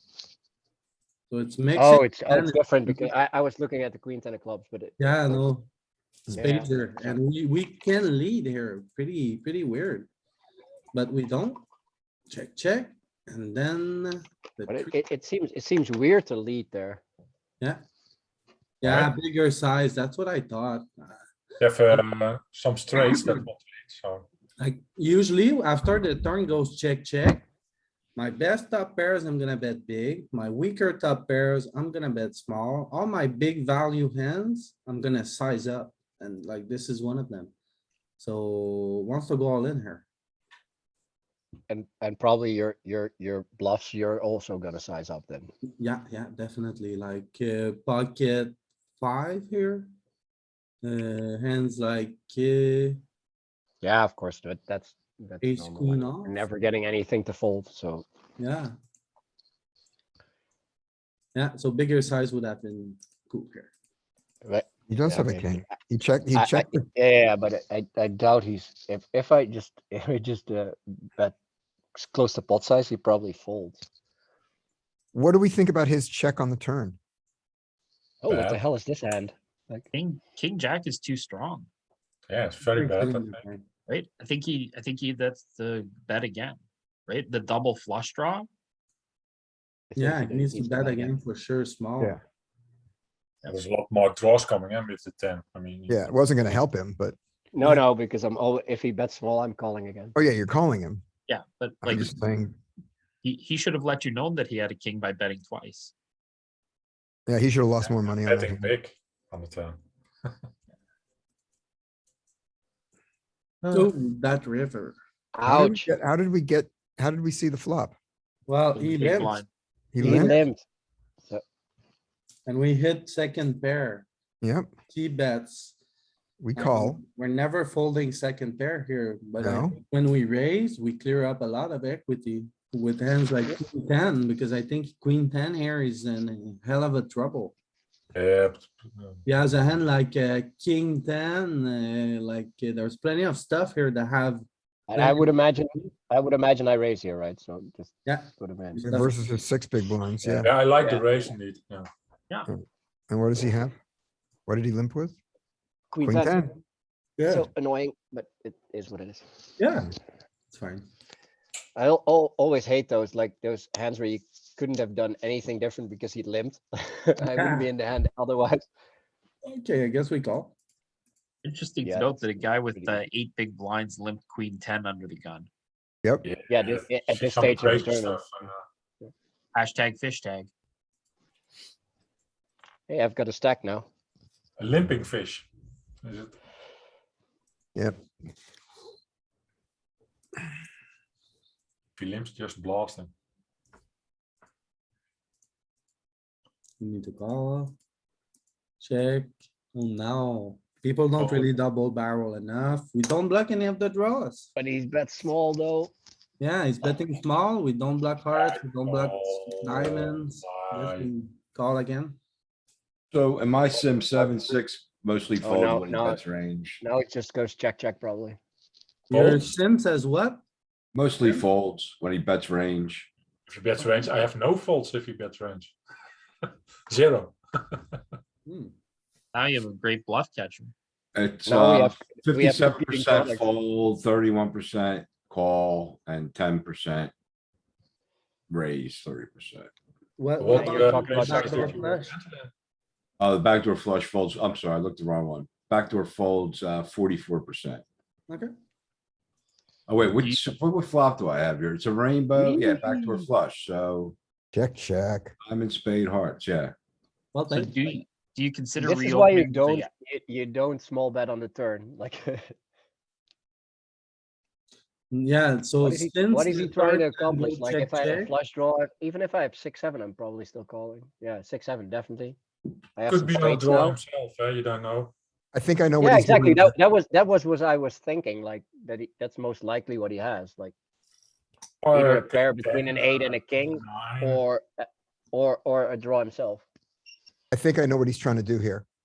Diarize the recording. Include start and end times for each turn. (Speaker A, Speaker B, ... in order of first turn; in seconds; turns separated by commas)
Speaker A: 1.3-3.1, Speaker B: 1.7-5.5, Speaker A: 5.0-5.7, Speaker B: 6.3-7.2, Speaker A: 6.4-10.1, Speaker A: 10.9-11.6, Speaker A: 12.3-14.9, Speaker B: 14.7-17.0, Speaker A: 18.8-21.2, Speaker C: 18.8-19.1, Speaker C: 21.6-24.2, Speaker A: 24.6-27.4, Speaker A: 28.1-37.5, Speaker A: 38.2-40.0, Speaker B: 41.7-45.5, Speaker A: 45.8-49.9, Speaker A: 50.8-53.0, Speaker B: 53.8-58.0, Speaker A: 55.4-56.4, Speaker A: 58.4-58.7, Speaker A: 61.3-63.7, Speaker B: 64.4-65.5, Speaker D: 64.9-66.8, Speaker B: 66.3-71.3, Speaker B: 71.9-73.8, Speaker D: 75.1-77.0, Speaker B: 78.2-79.9, Speaker C: 78.3-78.6, Speaker E: 79.9-81.7, Speaker C: 82.3-83.4, Speaker A: 82.7-83.6, Speaker E: 83.9-88.5, Speaker B: 89.9-91.1, Speaker A: 90.0-92.2, Speaker C: 93.4-96.1, Speaker D: 95.9-97.8, Speaker B: 97.5-100.1, Speaker D: 100.2-101.0, Speaker E: 101.3-102.1, Speaker D: 101.8-102.5, Speaker E: 103.2-105.9, Speaker D: 107.3-108.6, Speaker C: 107.8-109.8, Speaker C: 113.6-113.9, Speaker A: 113.7-114.9, Speaker B: 115.3-115.9, Speaker D: 115.4-117.9, Speaker A: 118.5-119.4, Speaker E: 119.0-119.5, Speaker D: 119.9-120.4, Speaker B: 120.0-120.6, Speaker A: 120.1-120.3, Speaker A: 122.5-124.0, Speaker D: 124.4-124.7, Speaker A: 124.9-125.8, Speaker D: 126.4-127.0, Speaker A: 126.5-137.5, Speaker D: 129.4-129.8, Speaker C: 138.1-139.2, Speaker A: 139.2-145.3, Speaker B: 144.9-148.8, Speaker A: 148.1-149.1, Speaker D: 148.8-150.5, Speaker C: 150.3-151.9, Speaker D: 153.1-153.7, Speaker D: 154.5-155.2, Speaker B: 155.9-156.4, Speaker D: 156.0-156.5, Speaker A: 157.2-157.5, Speaker B: 157.3-159.2, Speaker A: 159.6-159.9, Speaker A: 160.5-160.8, Speaker B: 161.8-168.6, Speaker A: 167.3-167.7, Speaker A: 169.4-170.5, Speaker E: 171.4-175.5, Speaker B: 171.8-173.0, Speaker C: 176.2-178.6, Speaker B: 176.5-178.2, Speaker E: 179.5-180.5, Speaker B: 182.9-183.9, Speaker C: 184.6-185.5, Speaker C: 186.0-186.3, Speaker C: 192.0-193.1, Speaker A: 196.8-197.7, Speaker A: 198.8-204.5, Speaker C: 201.2-201.5, Speaker B: 204.6-205.9, Speaker A: 206.4-212.2, Speaker C: 208.3-211.1, Speaker F: 213.1-216.8, Speaker B: 215.4-216.2, Speaker B: 216.8-218.4, Speaker A: 219.1-220.4, Speaker C: 219.1-219.6, Speaker F: 220.9-223.1, Speaker C: 223.5-225.7, Speaker C: 226.9-228.0, Speaker A: 228.5-228.7, Speaker E: 229.3-230.7, Speaker F: 231.1-237.1, Speaker B: 231.4-233.5, Speaker F: 238.5-239.7, Speaker A: 240.2-242.1, Speaker C: 240.4-242.5, Speaker B: 240.4-241.8, Speaker F: 243.2-247.8, Speaker F: 249.9-254.1, Speaker B: 252.5-252.9, Speaker D: 254.5-255.3, Speaker F: 255.4-256.7, Speaker A: 257.3-258.0, Speaker E: 257.5-259.9, Speaker B: 258.8-262.5, Speaker A: 265.1-268.3, Speaker B: 265.8-272.4, Speaker B: 272.9-274.0, Speaker C: 273.1-275.1, Speaker D: 275.5-276.7, Speaker B: 276.0-280.7, Speaker C: 281.8-284.4, Speaker B: 281.9-286.6, Speaker D: 287.5-288.8